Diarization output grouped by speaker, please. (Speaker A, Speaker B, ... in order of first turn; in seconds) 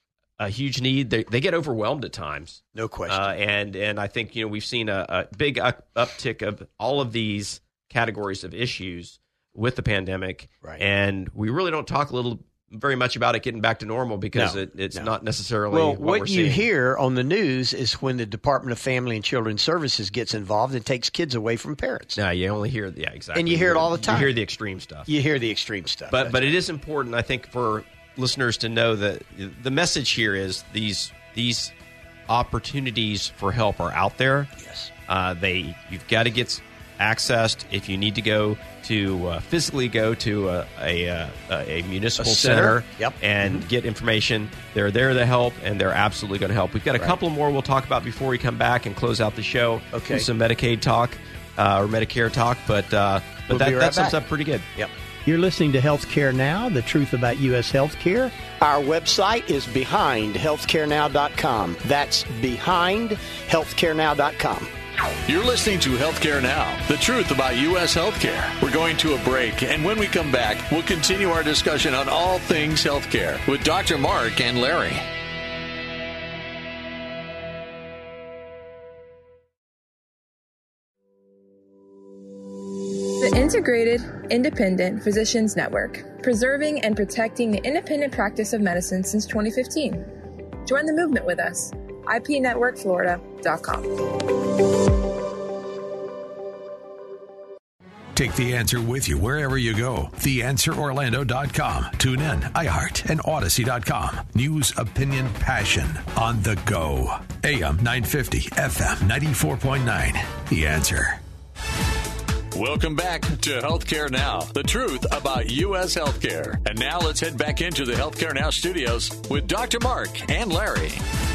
Speaker A: 0.4-16.6, 22.1-25.1, 26.1-31.7, 32.3-34.5, 35.1-54.7
Speaker B: 2.7-3.3, 14.3-15.1, 15.7-22.2, 23.3-24.3, 25.1-26.5, 34.6-34.9, 42.2-43.6, 49.9-50.3, 53.5-54.2, 54.8-64.7
Speaker C: 65.2-75.0, 112.5-121.0
Speaker D: 83.1-90.1, 90.6-94.4
Speaker E: 98.1-111.2